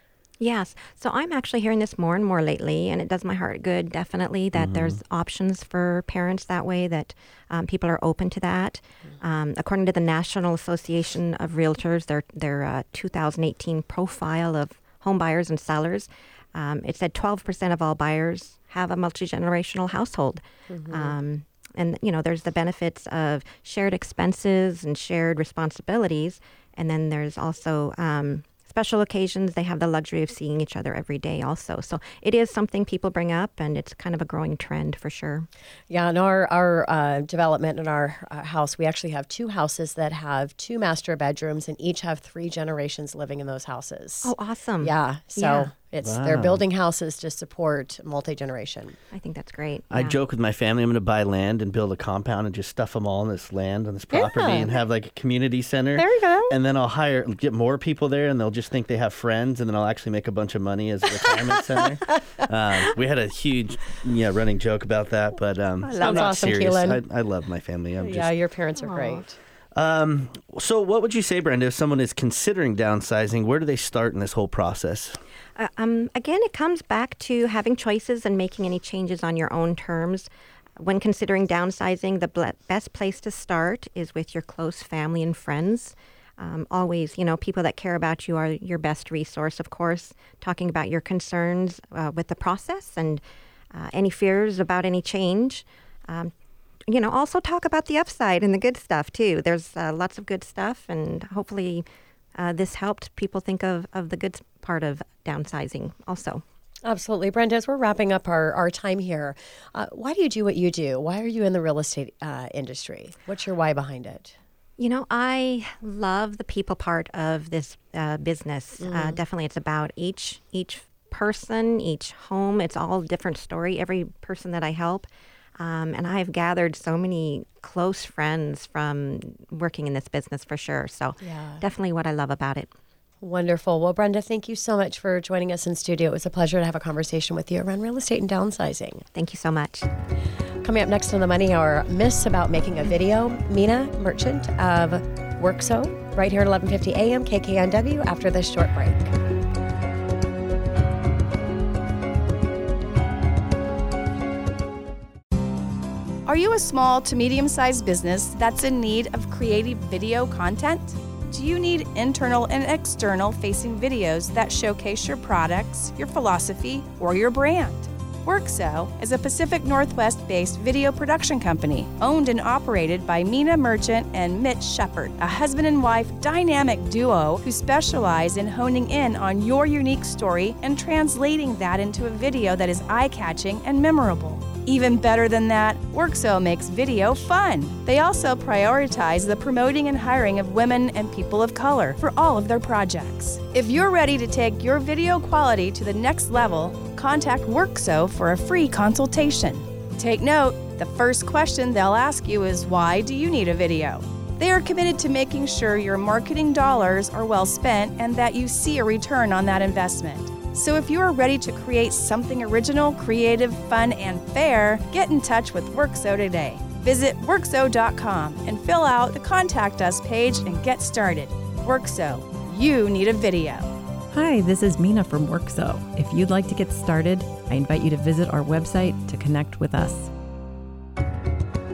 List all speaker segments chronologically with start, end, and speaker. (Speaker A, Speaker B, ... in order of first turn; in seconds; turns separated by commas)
Speaker A: 0.4-35.5, Speaker B: 4.5-5.0, Speaker C: 20.7-21.1, Speaker C: 35.9-49.0, Speaker A: 44.2-45.7, Speaker B: 46.0-46.6, Speaker A: 49.1-50.2, Speaker B: 49.9-68.3, Speaker A: 54.2-54.7, Speaker A: 56.0-56.5, Speaker A: 65.8-66.3, Speaker C: 66.0-67.0, Speaker C: 68.0-69.3, Speaker A: 68.8-69.2, Speaker B: 69.7-75.2, Speaker A: 75.6-96.3, Speaker A: 96.9-101.8, Speaker A: 102.4-106.4, Speaker C: 106.8-114.3, Speaker A: 114.8-125.1, Speaker C: 118.8-119.2, Speaker A: 125.6-132.7, Speaker C: 131.2-131.6, Speaker C: 133.2-139.0, Speaker A: 139.1-139.9, Speaker C: 140.6-149.1, Speaker D: 156.2-223.7, Speaker E: 224.1-230.1